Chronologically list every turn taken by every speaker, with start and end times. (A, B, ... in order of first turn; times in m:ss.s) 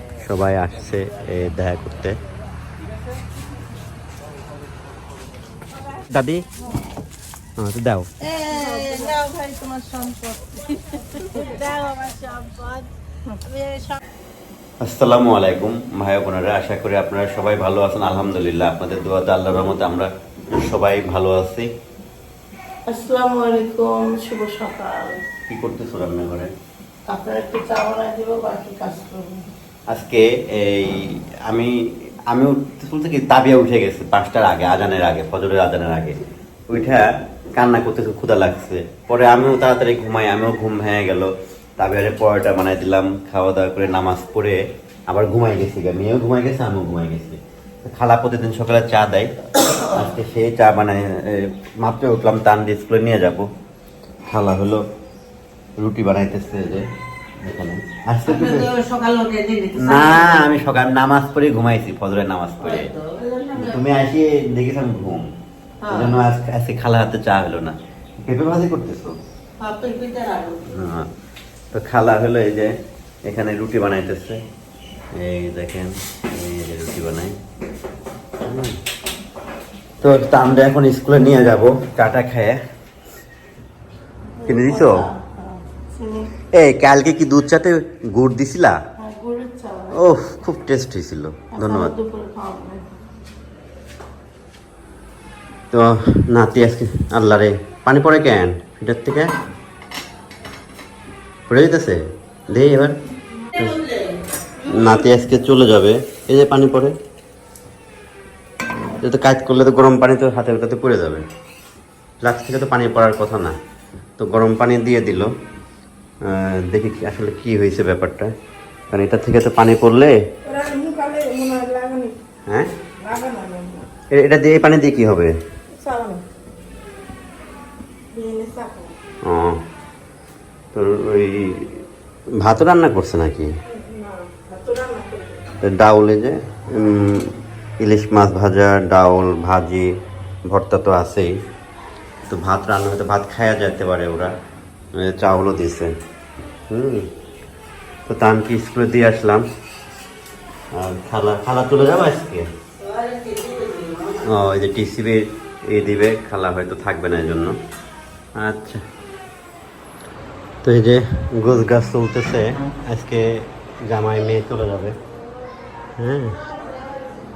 0:00.2-0:02.2 A
0:06.1-0:06.5 A
0:07.6-0:08.1 A
0:08.2-0:14.0 B
0:14.8-0:21.7 A
0:22.9-0:25.2 B
0:25.5-0:26.5 A
0:27.1-0:29.5 B
0:29.9-0:49.3 A
0:49.8-0:53.5 A
0:54.3-0:54.8 A
0:55.8-0:56.9 A
0:57.4-0:58.7 A
0:58.3-1:00.6 B
0:59.8-1:02.9 A
1:02.6-1:03.8 B
1:03.5-1:05.3 A
1:05.8-1:06.2 B
1:05.9-1:09.2 A
1:09.6-1:10.6 B
1:10.6-1:11.1 A
1:11.7-1:14.4 A
1:15.1-1:17.4 A
1:18.4-1:18.8 A
1:20.0-1:22.6 A
1:24.4-1:26.3 B
1:24.4-1:25.1 A
1:26.5-1:28.8 A
1:29.0-1:30.0 B
1:29.9-1:31.9 A
1:31.5-1:32.8 B
1:35.7-1:39.3 A
1:41.5-1:43.0 A
1:43.6-1:43.8 A
1:44.6-1:47.0 A
1:48.8-1:51.3 A
1:52.2-1:53.6 A
1:54.2-1:55.3 A
1:56.2-1:58.3 A
1:58.9-2:00.2 A
2:00.4-2:02.1 B
2:03.0-2:03.9 B
2:04.1-2:05.4 A
2:05.7-2:06.2 B
2:08.1-2:08.9 B
2:09.2-2:09.6 A
2:10.7-2:11.8 A
2:12.4-2:13.5 A
2:13.7-2:15.5 B
2:15.6-2:21.4 A
2:22.3-2:24.3 A
2:24.9-2:26.0 A
2:26.7-2:27.1 A
2:28.1-2:29.4 A
2:30.7-2:32.5 A
2:34.2-2:37.6 A
2:38.4-2:38.8 A
2:40.6-2:45.0 A
2:46.0-2:46.4 A